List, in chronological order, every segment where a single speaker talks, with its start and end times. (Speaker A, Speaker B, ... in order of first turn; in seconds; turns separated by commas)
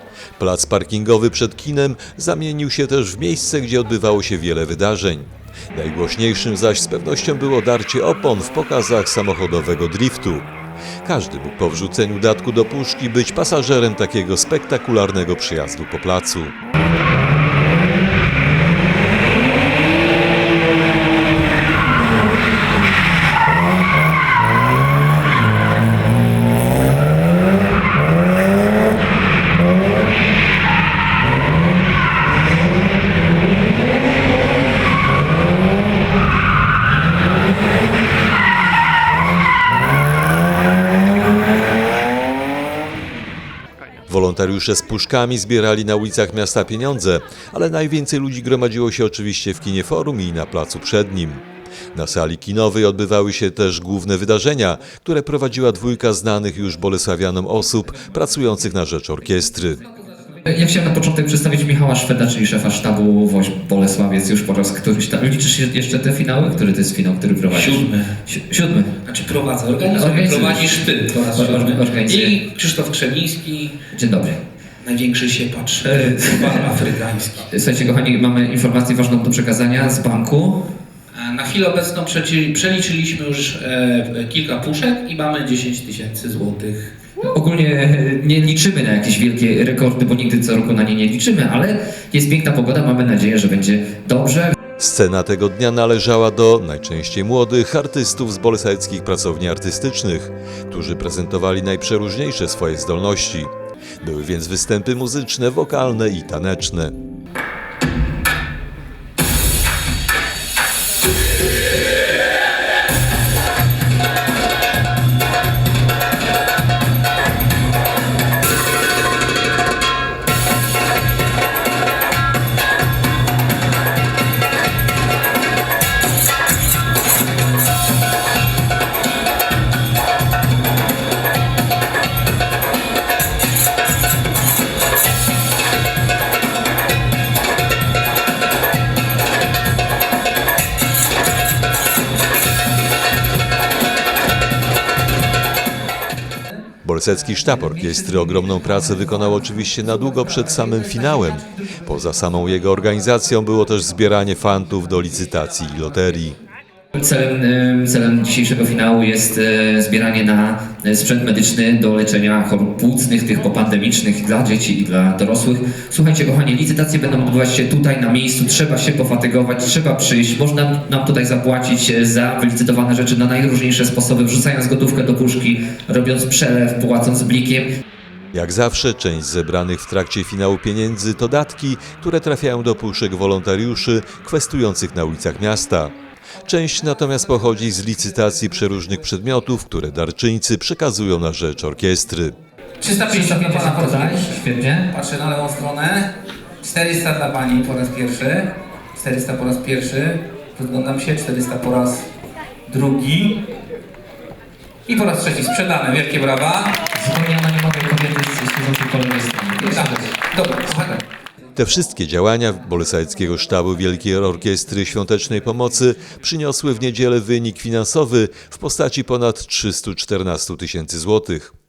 Speaker A: 0.4-10.5, Speaker A: 11.0-16.5, Speaker A: 44.1-59.8, Speaker B: 60.4-68.9, Speaker C: 67.5-68.1, Speaker C: 69.0-73.8, Speaker B: 69.8-72.4, Speaker B: 73.9-74.4, Speaker C: 74.8-77.5, Speaker B: 75.8-76.7, Speaker B: 77.5-80.7, Speaker C: 81.1-86.9, Speaker B: 87.2-94.6, Speaker A: 94.8-106.9, Speaker A: 146.8-156.4, Speaker B: 156.9-177.7, Speaker A: 178.3-185.9, Speaker A: 186.4-192.3, Speaker C: 192.8-202.1, Speaker B: 193.1-194.9, Speaker C: 202.7-203.4, Speaker C: 204.8-206.8, Speaker B: 206.9-210.2, Speaker C: 209.6-210.9, Speaker A: 211.6-221.5